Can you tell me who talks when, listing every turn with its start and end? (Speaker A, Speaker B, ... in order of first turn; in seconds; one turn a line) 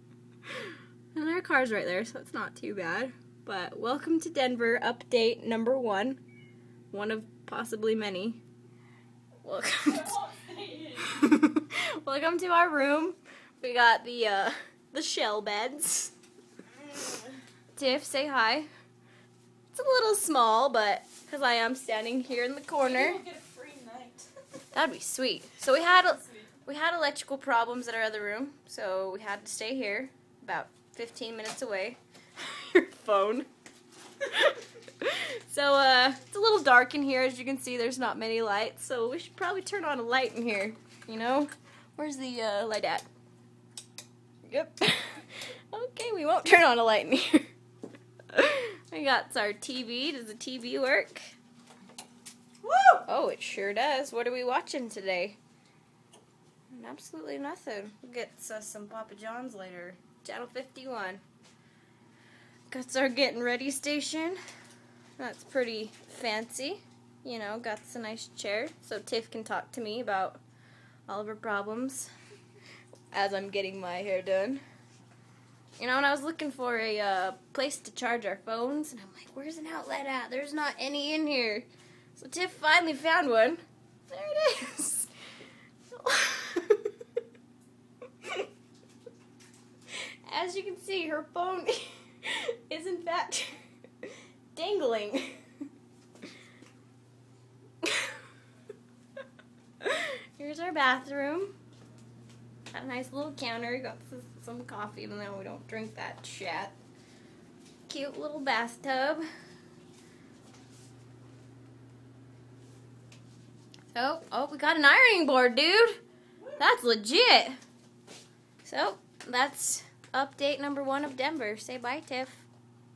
Speaker A: 0.6-6.2
Speaker A: 6.9-8.4
Speaker A: 9.4-10.1
Speaker B: 9.9-11.2
Speaker A: 11.1-16.1
Speaker A: 17.8-18.7
Speaker A: 19.7-23.2
Speaker B: 22.8-24.3
Speaker A: 24.7-33.5
Speaker B: 26.0-26.4
Speaker A: 34.2-43.1
Speaker A: 44.5-47.5
Speaker A: 48.3-51.3
Speaker B: 52.6-53.0
Speaker A: 53.0-55.4
Speaker A: 56.7-61.2
Speaker A: 62.7-64.4
Speaker A: 65.2-70.4
Speaker A: 71.1-72.1
Speaker A: 73.1-74.6
Speaker A: 75.8-85.1
Speaker A: 85.9-86.9
Speaker A: 90.3-95.3
Speaker A: 97.8-98.1
Speaker A: 99.8-101.5
Speaker A: 102.7-106.8
Speaker A: 107.9-109.2
Speaker A: 113.9-116.0
Speaker A: 116.6-117.6
Speaker A: 118.6-122.5